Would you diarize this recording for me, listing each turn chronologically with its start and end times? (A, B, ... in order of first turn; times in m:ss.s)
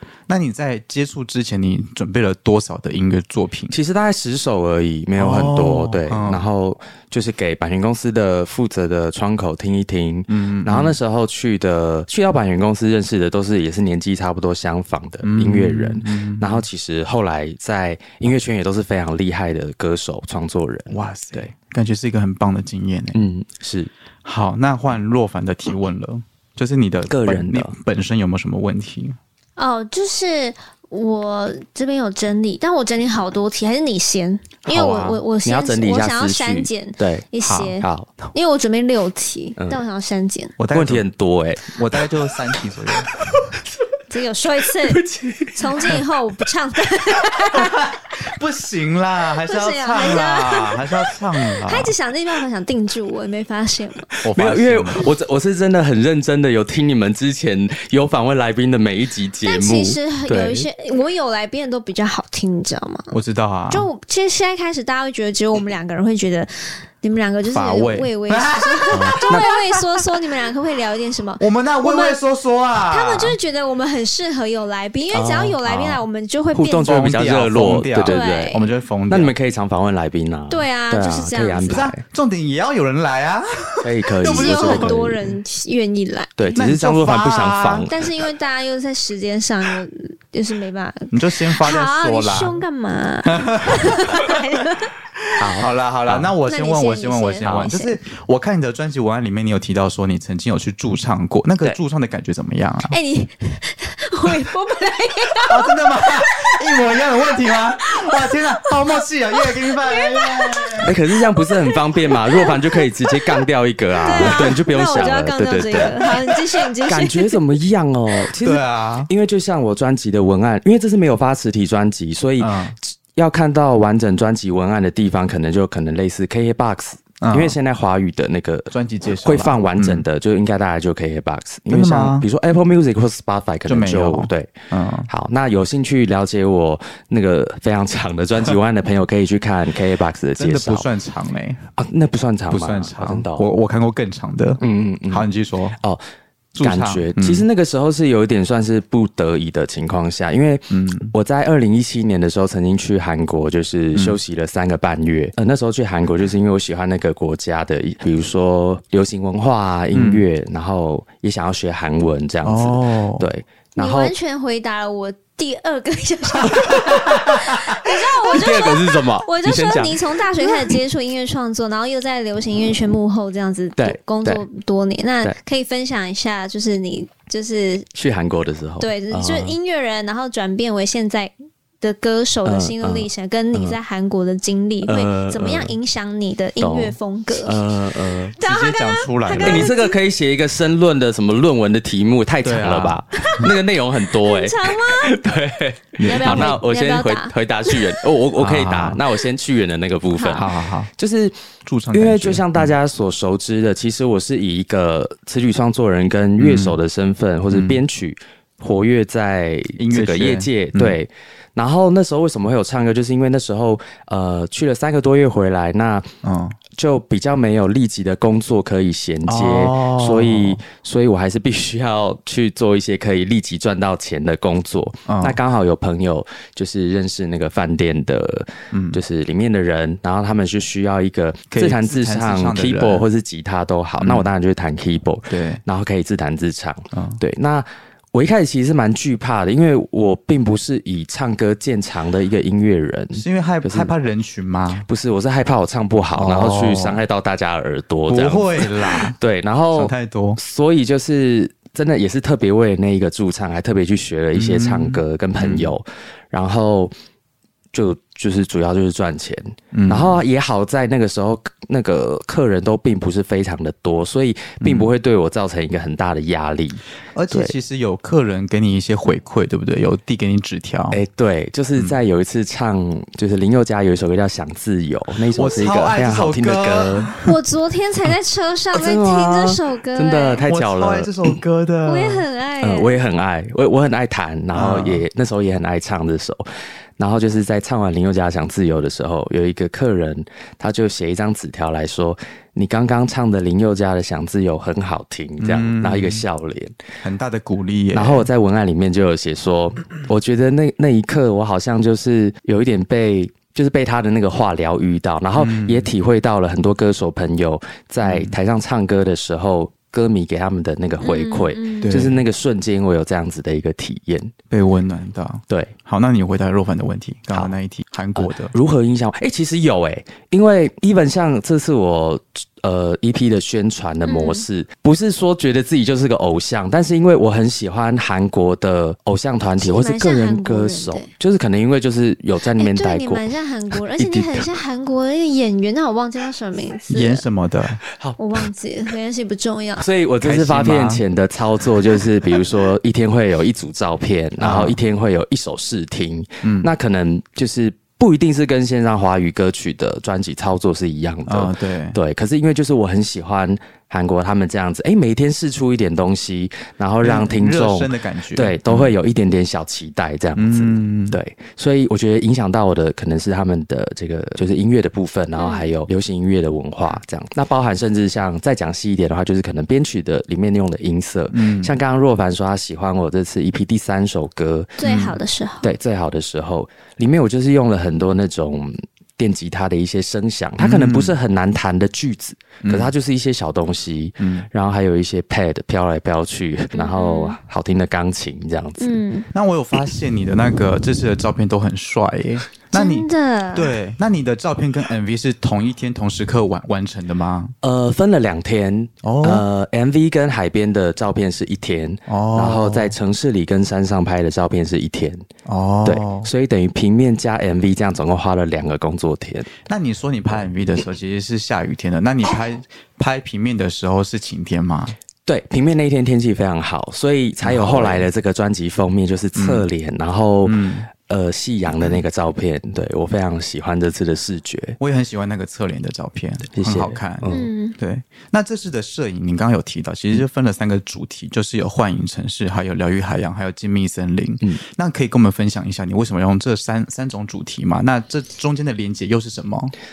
0:00.3-0:03.8 A
0:03.7-0:21.5 B
0:05.2-0:06.4 A
0:10.3-0:11.0 A
0:15.2-0:16.6 A
0:20.9-0:23.2 A
0:23.1-0:23.9 B
0:24.2-0:29.2 A
0:27.1-0:27.7 B
0:29.6-0:40.6 C
0:34.7-0:35.2 A
0:35.4-0:38.1 B
0:37.4-0:37.7 A
0:40.6-0:41.0 A
0:40.7-0:41.7 B
0:41.7-0:43.1 A
0:44.1-0:47.9 C
0:44.8-0:46.0 B
0:47.4-0:51.9 A
0:49.4-0:54.1 C
0:54.2-0:55.0 A
0:54.3-1:00.7 B
0:59.4-1:03.2 C
1:03.1-1:03.9 A
1:03.7-1:12.2 C
1:07.5-1:09.8 A
1:09.0-1:09.5 B
1:11.4-1:13.4 A
1:12.8-1:17.0 C
1:15.1-1:18.6 B
1:16.8-1:19.3 A
1:18.0-1:18.7 C
1:19.1-1:22.0 B
1:20.5-1:21.8 C
1:21.7-1:25.2 A
1:23.8-1:25.2 B
1:24.2-1:26.4 C
1:26.4-1:28.1 B
1:26.6-1:27.9 A
1:27.9-1:34.9 C
1:31.1-1:32.6 A
1:33.2-1:34.3 A
1:35.3-1:43.0 A
1:35.4-1:36.3 B
1:36.5-1:38.0 C
1:42.9-1:46.4 C
1:45.5-1:50.9 A
1:47.8-1:48.4 C
1:49.9-1:50.9 C
1:50.8-2:14.5 B
1:51.4-1:52.6 C
1:54.0-1:57.4 C
1:58.4-1:59.1 A
2:02.4-2:02.8 A
2:07.2-2:07.6 A
2:08.7-2:10.0 A
2:11.7-2:12.3 A
2:13.7-2:15.1 A
2:15.1-2:20.9 B
2:20.4-2:21.6 A
2:21.8-2:23.5 B
2:22.5-2:25.8 A
2:24.6-2:26.0 B
2:26.6-2:27.4 A
2:26.6-2:44.1 B
2:30.7-2:31.1 A
2:39.9-2:40.2 A
2:42.4-2:43.3 A
2:43.8-2:57.9 C
2:46.5-2:50.8 B
2:53.8-2:54.4 B
2:58.0-2:59.6 B
2:58.8-3:07.7 C
3:02.4-3:03.8 B
3:04.8-3:05.8 B
3:06.6-3:08.4 B
3:08.3-3:09.9 C
3:08.4-3:09.7 A
3:09.4-3:21.4 B
3:12.4-3:13.0 A
3:13.2-3:13.5 C
3:14.1-3:15.2 C
3:16.0-3:16.6 A
3:16.0-3:18.0 C
3:18.4-3:19.0 A
3:20.1-3:20.5 C
3:20.4-3:20.9 A
3:21.6-3:22.7 A
3:21.9-3:36.1 B
3:26.4-3:26.8 A
3:27.5-3:27.8 A
3:29.8-3:31.0 A
3:36.2-3:36.6 A
3:36.7-4:03.9 B
3:39.3-3:40.6 A
3:45.1-3:45.4 A
3:48.7-3:49.0 A
3:51.5-3:53.1 A
3:54.0-3:54.3 A
3:55.3-3:55.6 A
3:56.9-3:57.2 A
4:03.1-4:04.8 A
4:04.9-4:16.9 B
4:06.2-4:07.0 A
4:08.1-4:09.2 A
4:09.7-4:10.4 A
4:14.3-4:15.7 A
4:17.7-4:27.5 B
4:19.7-4:20.2 A
4:24.6-4:24.9 A
4:27.2-4:31.0 A
4:30.9-4:37.1 B
4:35.4-4:37.3 A
4:37.2-4:40.4 C
4:38.7-4:41.4 B
4:40.5-4:42.2 A
4:41.9-4:43.0 C
4:42.6-4:46.5 B
4:44.5-4:45.0 A
4:47.0-4:56.8 B
4:55.4-4:56.2 A
4:57.0-4:58.3 A
4:57.9-5:14.3 B
5:05.4-5:05.9 A
5:08.0-5:08.4 A
5:11.0-5:12.1 C
5:11.8-5:12.2 A
5:14.5-5:18.5 A
5:15.5-5:15.7 B
5:18.2-5:33.3 B
5:24.1-5:24.4 C
5:29.6-5:31.1 C
5:32.6-5:37.2 C
5:33.9-5:34.5 B
5:36.9-5:37.8 A
5:38.2-5:39.9 C
5:39.8-6:14.8 B
5:40.2-5:41.0 A
5:44.4-5:44.8 A
5:46.4-5:46.7 A
5:51.3-5:52.0 A
5:57.0-5:58.9 A
6:00.4-6:01.2 A
6:05.4-6:05.7 C
6:11.3-6:11.7 A
6:14.8-6:15.7 C
6:14.8-6:15.2 A
6:15.6-6:29.0 B
6:20.6-6:21.2 A
6:22.6-6:22.9 A
6:24.2-6:24.5 A
6:26.7-6:27.4 C
6:28.8-6:29.3 C
6:29.3-6:37.5 A
6:32.7-6:33.8 C
6:37.6-6:45.2 B
6:39.0-6:39.4 A
6:42.1-6:43.0 A
6:45.5-6:46.3 A
6:45.8-6:49.5 B
6:49.7-6:55.0 A
6:55.3-7:04.8 B
6:57.4-6:58.1 A
6:59.4-6:59.7 A
7:00.4-7:00.9 A
7:04.8-7:19.7 A
7:06.5-7:07.5 B
7:07.3-7:07.8 C